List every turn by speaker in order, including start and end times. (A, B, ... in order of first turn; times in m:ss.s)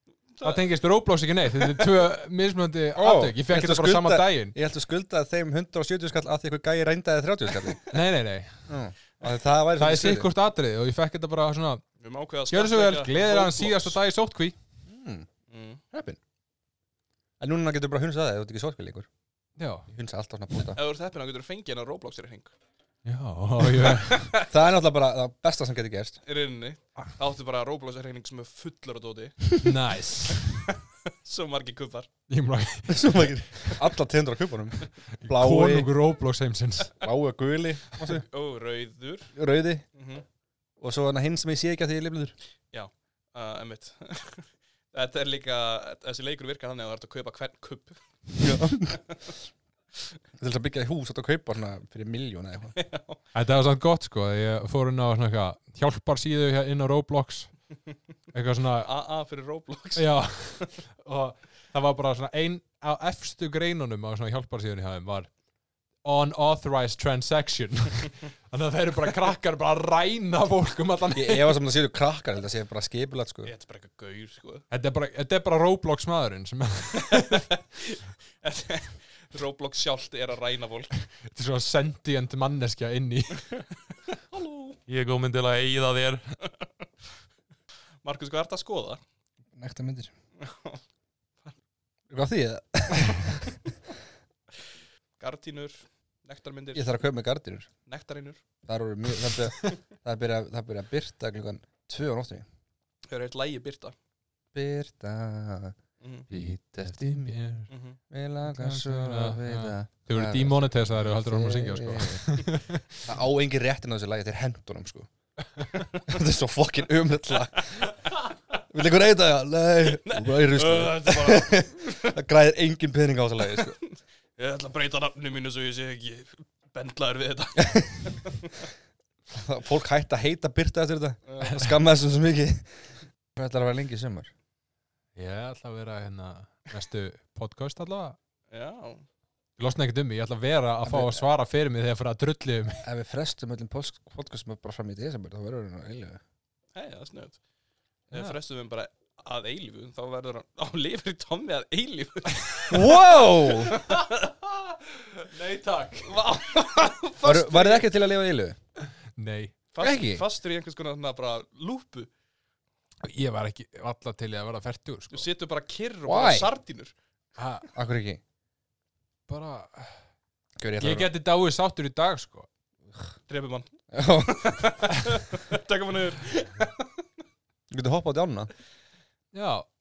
0:00.3-0:00.7 A
0:00.4-0:04.6 B
0:03.0-0:07.9 C
0:07.9-0:08.7 B
0:08.7-0:10.3 C
0:09.8-0:11.8 B
0:12.0-0:14.0 A
0:12.5-0:14.6 B
0:14.9-0:15.3 C
0:15.5-0:15.8 A
0:15.9-0:16.2 C
0:17.4-0:19.1 C
0:19.6-0:19.9 B
0:19.9-0:20.8 C
0:20.6-0:22.5 A
0:23.0-0:24.3 B
0:23.7-0:24.5 A
0:24.4-0:26.2 C
0:26.2-0:29.6 A
0:29.6-0:30.7 B
0:30.3-0:32.1 A
0:32.3-0:33.8 B
0:32.9-0:35.9 C
0:35.2-0:36.9 B
0:37.0-0:38.2 C
0:38.0-0:39.3 A
0:39.4-0:39.8 C
0:40.0-0:40.2 A
0:40.8-0:42.4 C
0:42.7-0:49.3 A
0:48.4-0:49.0 C
0:50.4-0:52.8 C
0:52.8-0:53.2 A
0:53.3-0:57.5 B
0:58.3-0:58.9 B
0:58.8-1:00.7 A
1:00.0-1:05.3 B
1:06.0-1:11.6 B
1:11.2-1:13.5 C
1:13.4-1:14.7 A
1:14.7-1:17.5 B
1:17.0-1:20.9 A
1:21.2-1:23.5 B
1:23.4-1:24.8 A
1:24.9-1:26.4 B
1:28.0-1:29.0 A
1:29.6-1:30.1 C
1:30.4-1:30.8 A
1:32.1-1:33.6 C
1:35.2-1:36.9 A
1:36.7-1:37.7 C
1:37.9-1:38.4 A
1:38.7-1:42.4 C
1:43.1-1:44.0 A
1:44.5-1:45.8 C
1:46.0-1:46.3 A
1:46.3-1:47.4 C
1:46.3-1:47.7 B
1:47.7-1:48.0 A
1:48.1-1:52.4 C
1:48.5-1:53.0 B
1:53.0-1:55.1 C
1:56.0-1:57.9 C
1:57.4-1:58.3 A
1:58.7-2:03.8 C
1:59.8-2:02.2 A
2:03.5-2:08.7 A
2:07.6-2:07.9 C
2:09.3-2:14.3 C
2:11.3-2:11.6 A
2:11.4-2:11.7 B
2:15.2-2:18.2 B
2:18.5-2:19.0 A
2:19.6-2:22.8 B
2:20.8-2:21.2 C
2:22.8-2:26.2 C
2:26.8-2:27.4 A
2:28.1-2:34.3 A
2:32.7-2:33.8 C
2:33.8-2:34.1 B
2:34.6-2:36.1 B
2:36.0-2:37.9 A
2:37.2-2:38.6 C
2:39.2-2:39.6 B
2:39.7-2:42.1 A
2:39.8-2:40.2 C
2:43.0-2:45.3 B
2:45.1-2:46.9 A
2:46.1-2:46.5 C
2:47.4-2:47.7 B
2:47.8-2:48.2 C
2:49.3-2:50.0 B
2:50.6-2:51.1 C
2:50.8-2:52.5 B
2:53.3-2:57.0 A
2:53.9-2:54.7 C
2:57.7-2:58.5 C
2:59.3-2:59.7 B